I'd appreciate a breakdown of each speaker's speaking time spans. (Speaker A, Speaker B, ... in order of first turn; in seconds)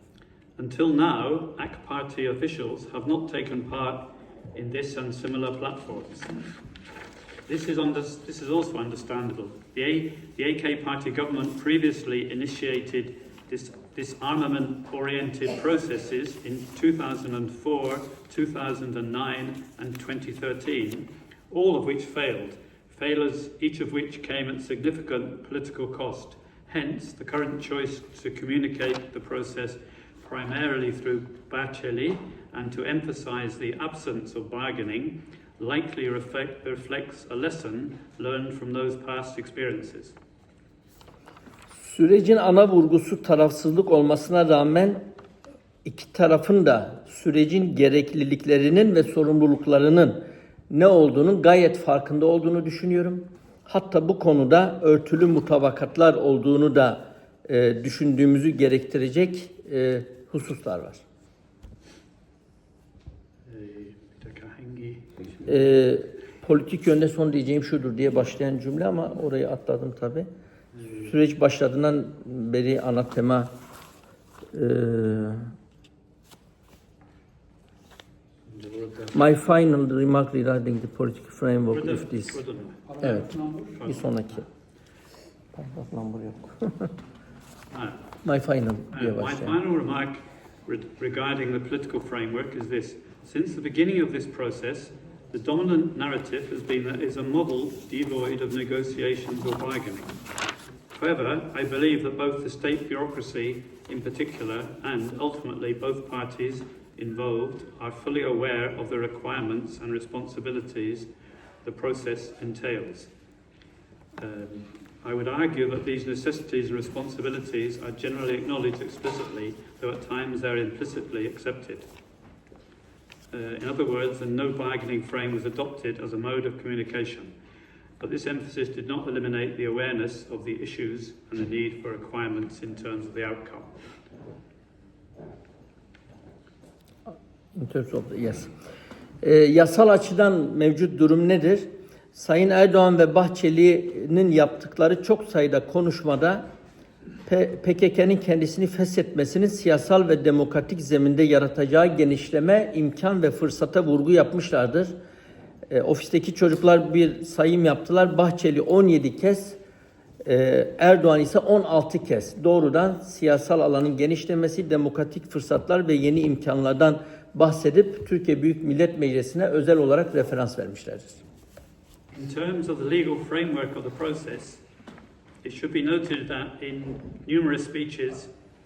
Speaker A: 0.6-6.3, 7.5-40.1, 63.5-65.1, 78.5-79.2, 81.7-84.1, 87.7-88.0, 88.9-100.1, 100.9-111.1, 111.6-113.1, 114.2-121.9, 123.3-127.3, 128.0-133.7, 172.1-174.6, 175.4-178.3
Speaker B: 41.8-45.0, 45.9-61.0, 65.5-70.3, 70.9-73.5, 74.5-75.5, 79.1-82.4, 83.0-84.5, 85.5-86.9, 88.2-89.6, 137.5-138.5, 139.2-146.4, 147.3-154.9, 155.7-159.6, 160.2-171.2